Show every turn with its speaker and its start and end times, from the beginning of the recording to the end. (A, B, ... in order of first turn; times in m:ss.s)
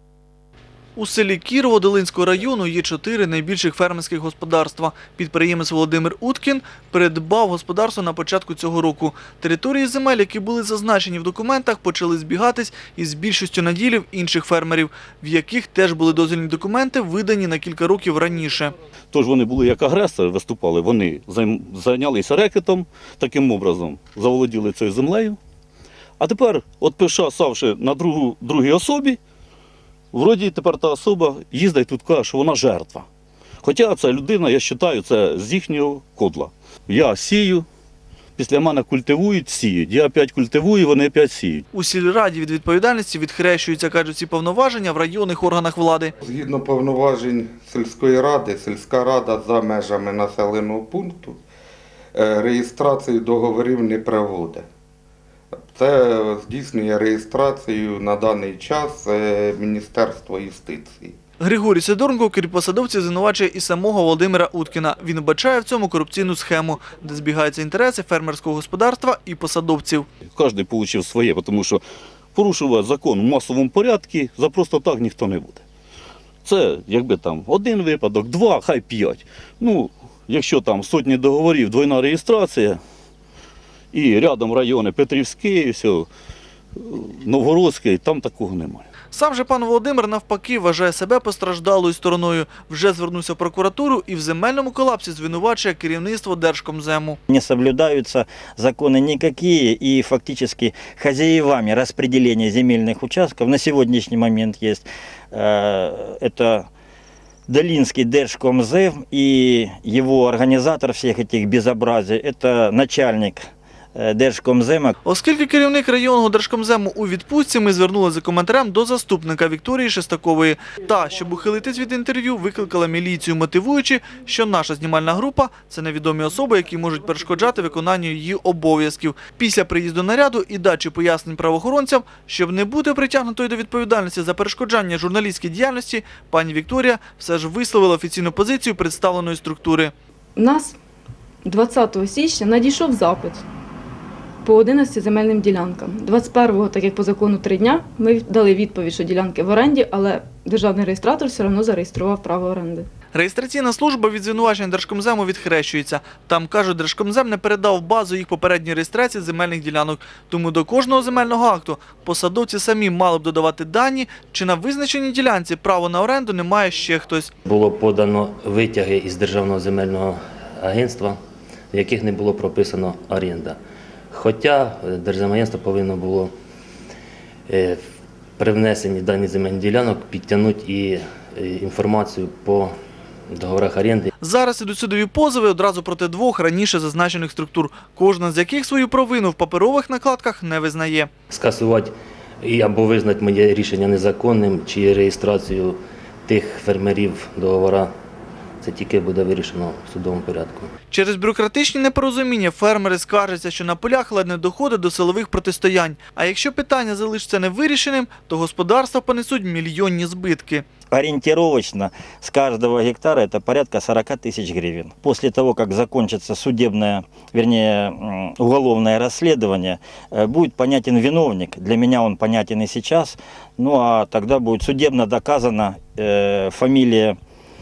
0:01.0-0:18.7 A
0:19.1-0:25.4 B
0:26.2-0:29.2 B
0:30.1-0:33.1 B
0:33.6-0:37.6 B
0:38.4-0:41.6 B
0:41.7-0:46.1 A
0:46.2-0:51.4 C
0:52.1-0:54.6 C
0:55.5-1:01.2 C
1:01.4-1:10.1 A
1:10.3-1:11.8 B
1:12.3-1:15.6 B
1:16.4-1:22.8 B
1:23.9-1:26.1 B
1:26.8-1:28.9 B
1:29.1-1:37.2 A
1:37.3-1:46.7 D
1:47.5-1:54.9 D
1:55.0-2:19.9 A
2:20.4-2:20.8 E
2:21.4-2:23.4 E
2:24.4-2:32.9 E
2:33.1-2:47.3 A
2:47.4-2:51.2 F
2:51.7-2:53.6 F
2:54.1-2:56.3 F
2:57.5-2:57.8 F
2:58.4-3:02.7 F
3:03.3-3:04.1 F
3:04.2-3:11.1 A
3:11.3-3:11.9 F
3:12.4-3:17.9 F
3:18.6-3:20.7 F
3:20.9-3:30.6 A
3:30.9-3:47.2 D